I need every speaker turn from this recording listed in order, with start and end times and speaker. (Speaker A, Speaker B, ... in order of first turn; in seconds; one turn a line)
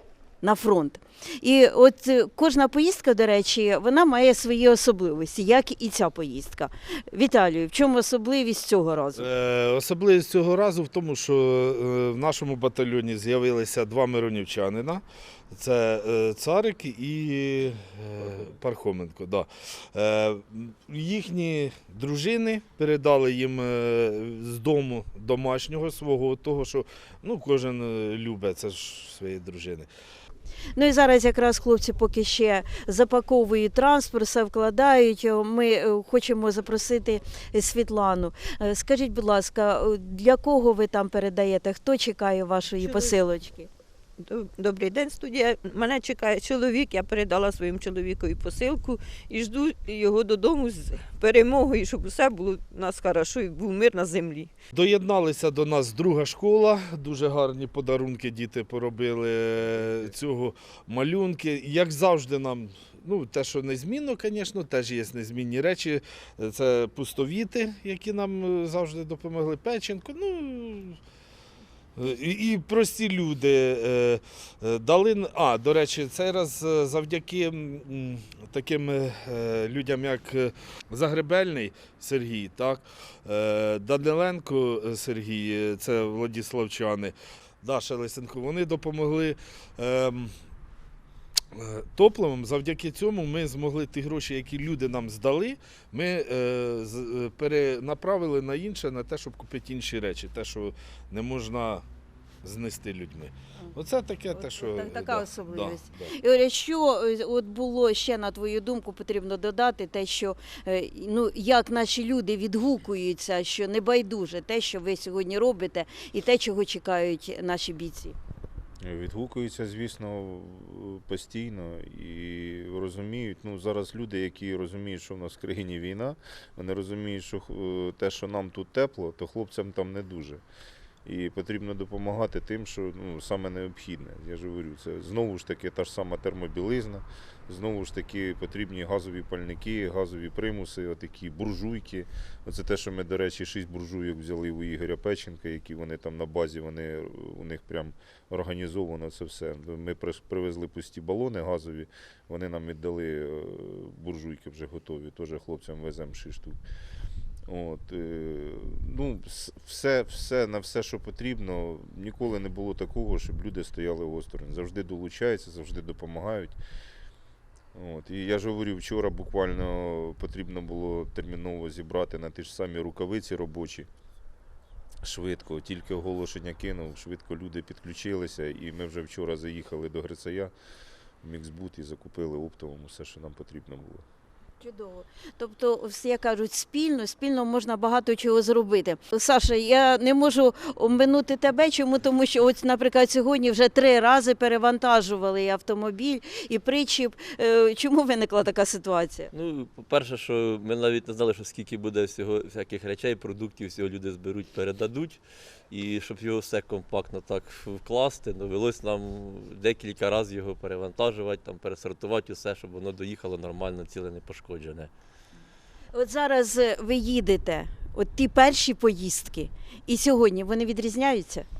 Speaker A: 0.4-9.3
Speaker B: 9.2-29.9
Speaker A: 30.8-43.7
Speaker C: 42.8-43.2
Speaker C: 44.2-54.5
Speaker B: 54.7-71.0
Speaker B: 72.0-90.3
Speaker B: 91.5-101.8
Speaker B: 102.4-106.1
Speaker A: 104.3-118.2
Speaker D: 118.8-130.4
Speaker D: 131.1-156.6
Speaker D: 157.5-166.6
Speaker D: 167.7-173.9
Speaker D: 175.0-180.5
Speaker D: 181.2-184.0
Speaker A: 184.6-199.3
Speaker E: 199.3-214.9
Speaker A: 215.9-221.5